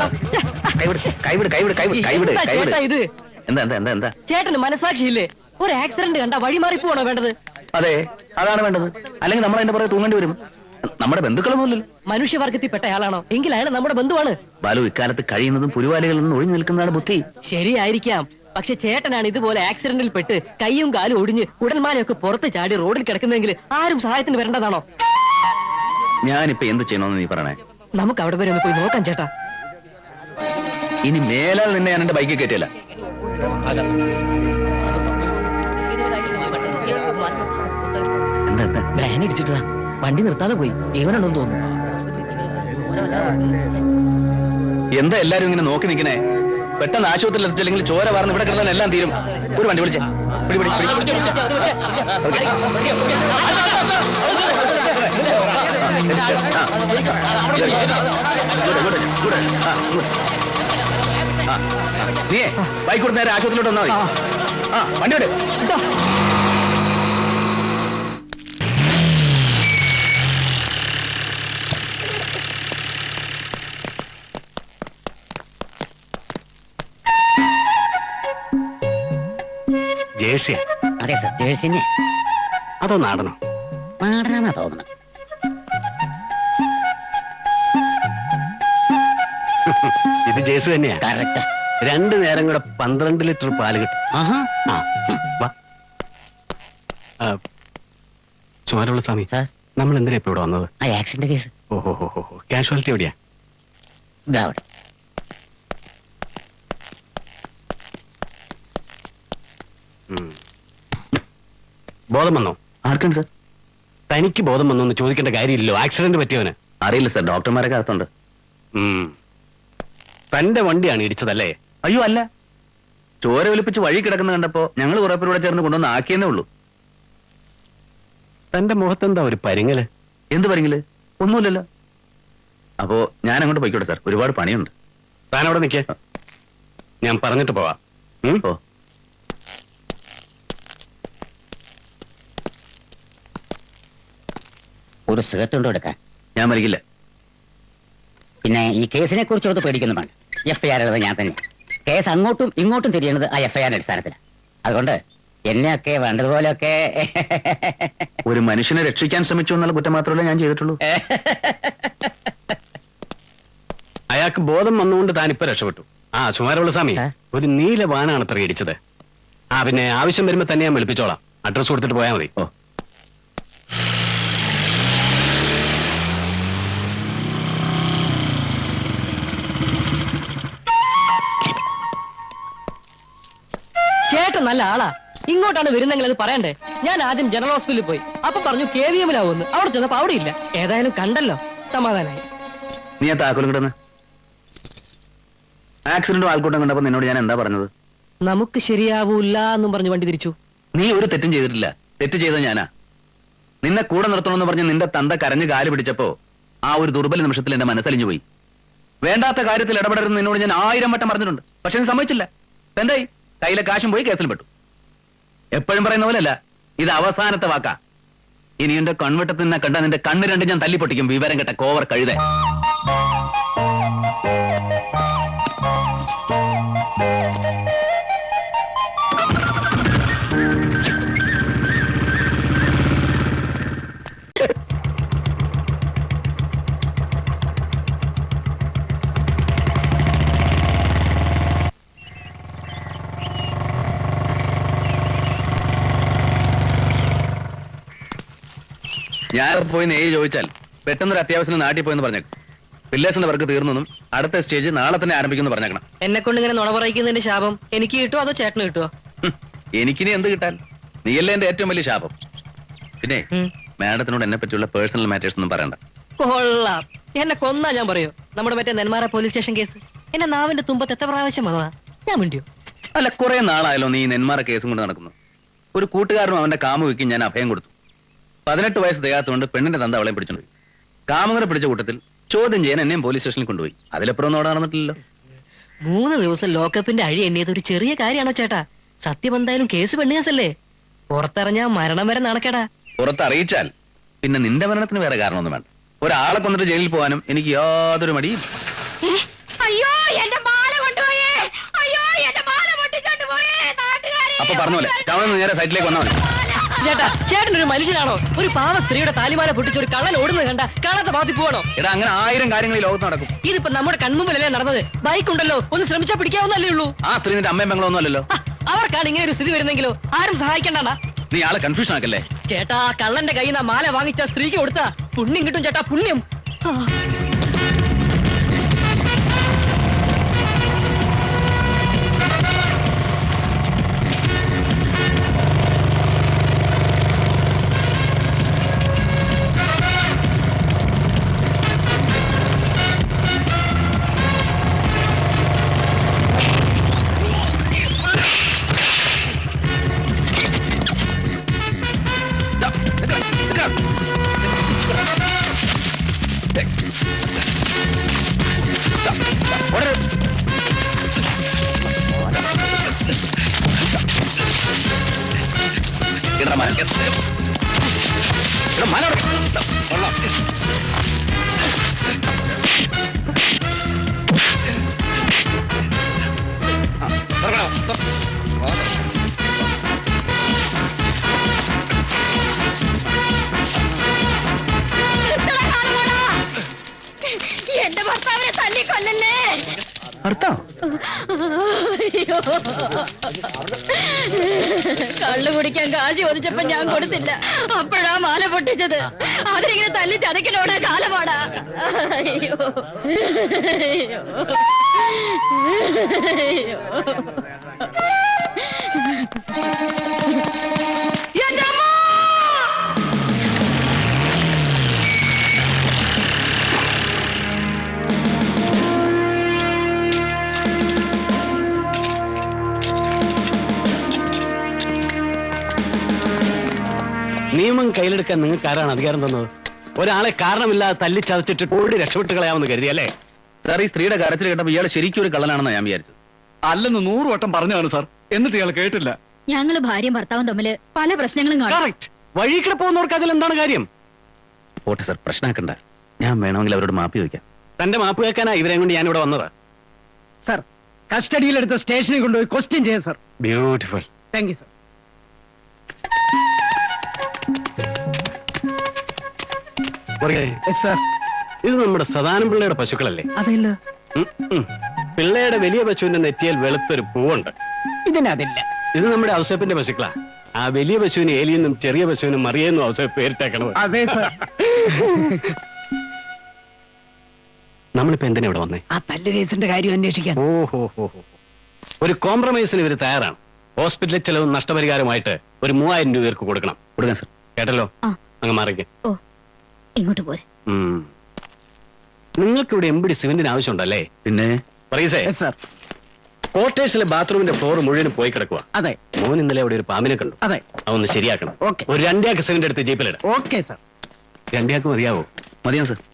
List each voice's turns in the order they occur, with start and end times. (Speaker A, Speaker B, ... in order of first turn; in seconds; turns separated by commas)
Speaker A: 0.3-0.9, Speaker B: 0.8-2.8, Speaker A: 1.8-3.1, Speaker B: 3.5-4.1, Speaker A: 4.3-7.3, Speaker B: 7.8-10.4, Speaker B: 11.0-11.9, Speaker A: 12.1-14.4, Speaker B: 14.6-17.2, Speaker A: 17.4-24.8, Speaker B: 26.3-27.6, Speaker A: 28.0-29.3, Speaker B: 31.1-32.7, Speaker B: 38.5-38.9, Speaker C: 39.0-41.5, Speaker B: 45.0-46.2, Speaker B: 46.8-51.4, Speaker B: 52.2-52.5, Speaker B: 55.2-56.7, Speaker B: 57.5-58.0, Speaker B: 58.6-60.1, Speaker B: 61.5-64.0, Speaker B: 64.7-65.3, Speaker D: 80.2-80.6, Speaker C: 81.0-81.9, Speaker D: 82.8-83.4, Speaker C: 84.0-84.9, Speaker D: 89.7-91.0, Speaker C: 91.0-91.5, Speaker D: 91.8-94.0, Speaker C: 94.1-94.5, Speaker D: 94.7-95.5, Speaker D: 98.7-100.7, Speaker C: 100.8-101.5, Speaker D: 101.7-103.1, Speaker C: 104.3-104.6, Speaker D: 110.1-110.4, Speaker D: 112.1-112.6, Speaker B: 112.9-113.3, Speaker D: 114.1-116.6, Speaker B: 116.8-118.1, Speaker D: 118.8-119.1, Speaker D: 120.3-121.5, Speaker B: 121.8-122.2, Speaker B: 123.2-126.5, Speaker D: 128.5-129.9, Speaker B: 130.3-131.6, Speaker B: 132.8-134.7, Speaker D: 135.3-135.9, Speaker D: 137.0-138.4, Speaker C: 145.1-146.0, Speaker B: 146.4-146.8, Speaker C: 148.4-158.1, Speaker B: 158.3-160.8, Speaker C: 160.9-162.5, Speaker D: 164.1-168.8, Speaker D: 169.6-172.3, Speaker A: 184.1-192.2, Speaker B: 193.0-193.7, Speaker B: 195.9-197.7, Speaker A: 198.2-200.3, Speaker B: 200.8-202.7, Speaker B: 203.6-206.1, Speaker B: 206.7-208.2, Speaker B: 209.0-214.5, Speaker B: 215.6-217.8, Speaker B: 218.6-222.2, Speaker B: 249.3-252.3, Speaker B: 252.9-255.8, Speaker A: 256.0-258.9, Speaker B: 259.2-262.1, Speaker B: 263.8-265.8, Speaker A: 266.2-272.5, Speaker B: 272.9-275.1, Speaker B: 275.8-277.7, Speaker B: 278.5-280.5, Speaker B: 281.1-285.0, Speaker A: 285.9-290.5, Speaker A: 291.1-292.6, Speaker B: 293.0-293.7, Speaker B: 294.2-298.4, Speaker E: 299.0-305.3, Speaker B: 304.4-306.1, Speaker E: 306.1-307.1, Speaker A: 306.8-311.7, Speaker B: 311.8-313.3, Speaker A: 313.4-316.9, Speaker B: 317.0-318.3, Speaker A: 318.3-321.0, Speaker B: 321.3-322.3, Speaker A: 322.5-326.9, Speaker B: 352.6-353.7, Speaker B: 359.1-360.0, Speaker B: 362.3-362.9, Speaker B: 366.4-367.1, Speaker B: 368.8-370.1, Speaker B: 377.1-377.9, Speaker E: 385.2-386.4, Speaker E: 387.2-389.7, Speaker B: 390.2-390.6, Speaker E: 390.9-393.3, Speaker E: 393.9-407.4, Speaker E: 408.6-409.3, Speaker E: 411.4-412.7, Speaker D: 427.6-433.1, Speaker B: 433.6-436.2, Speaker B: 436.7-439.1, Speaker E: 439.5-441.8, Speaker D: 441.7-443.9, Speaker B: 444.9-447.4, Speaker D: 447.8-449.5, Speaker F: 450.4-453.2, Speaker D: 453.4-454.1, Speaker F: 454.3-454.7, Speaker D: 460.2-460.6, Speaker F: 460.7-461.0, Speaker D: 461.6-463.3, Speaker F: 463.4-463.8, Speaker D: 464.2-467.5, Speaker F: 468.1-468.6, Speaker D: 468.9-473.8, Speaker F: 473.8-474.3, Speaker F: 475.1-475.4, Speaker D: 478.0-478.8, Speaker F: 478.9-480.4, Speaker D: 480.4-481.3, Speaker D: 482.0-486.8, Speaker B: 487.0-487.3, Speaker D: 487.6-487.9, Speaker D: 488.4-488.9, Speaker E: 490.0-490.4, Speaker D: 490.7-491.1, Speaker D: 492.4-494.1, Speaker B: 494.2-494.6, Speaker D: 494.9-495.3, Speaker F: 495.3-495.6, Speaker D: 496.5-503.2, Speaker F: 501.6-501.9, Speaker F: 503.2-503.8, Speaker D: 504.5-505.3, Speaker B: 505.6-506.0